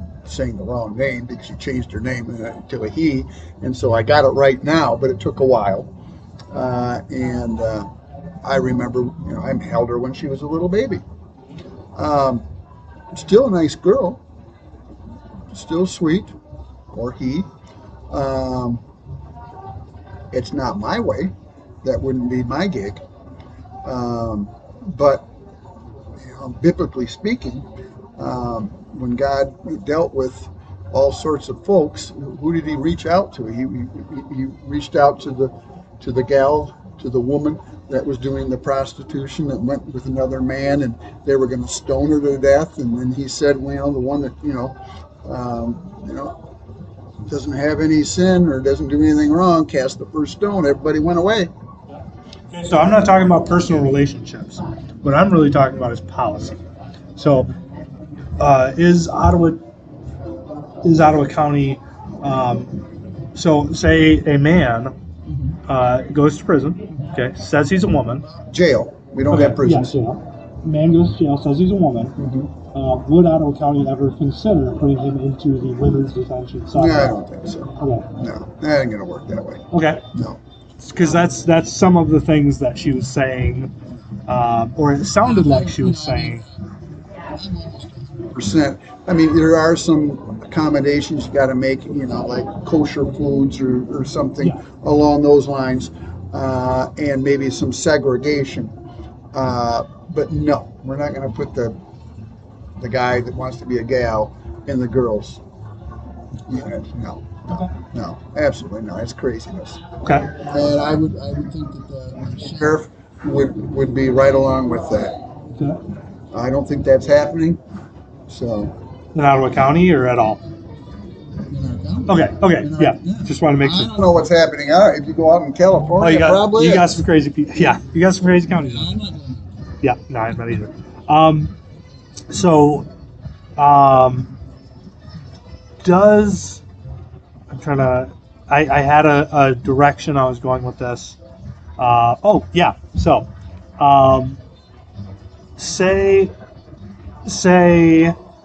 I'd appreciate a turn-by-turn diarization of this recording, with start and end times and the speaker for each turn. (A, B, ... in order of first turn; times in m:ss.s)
0:00.3-0:05.9 A
0:06.5-0:07.9 A
0:08.4-0:11.0 A
0:12.0-0:12.4 A
0:13.1-0:14.2 A
0:15.5-0:16.3 A
0:16.9-0:17.5 A
0:18.1-0:18.8 A
0:20.3-0:23.0 A
0:23.8-0:25.3 A
0:26.2-0:27.7 A
0:28.2-0:46.4 A
0:47.2-0:51.5 A
0:52.5-0:56.6 B
0:57.2-0:57.5 B
0:58.4-0:59.6 B
1:00.8-1:02.7 B
1:03.4-1:04.9 B
1:05.7-1:08.3 B
1:08.2-1:10.0 A
1:09.3-1:12.2 B
1:12.2-1:12.5 A
1:12.7-1:17.2 B
1:16.8-1:19.6 A
1:17.8-1:18.1 B
1:19.7-1:20.0 B
1:20.2-1:20.4 A
1:20.8-1:23.7 B
1:24.3-1:26.4 B
1:25.3-1:26.3 A
1:27.3-1:38.7 A
1:39.3-1:41.8 A
1:42.8-1:45.4 A
1:46.5-1:49.8 A
1:50.0-1:50.4 B
1:50.4-1:55.2 A
1:55.6-1:55.8 B
1:56.3-1:57.6 A
1:58.3-1:58.7 A
1:59.2-2:00.4 B
2:01.5-2:07.1 A
2:02.1-2:03.9 B
2:06.0-2:09.0 B
2:08.6-2:09.7 A
2:09.8-2:11.5 B
2:12.3-2:12.9 B
2:13.6-2:14.3 B
2:15.8-2:16.6 B
2:17.5-2:21.2 B
2:21.8-2:24.4 B
2:25.6-2:26.3 B
2:27.2-2:28.2 B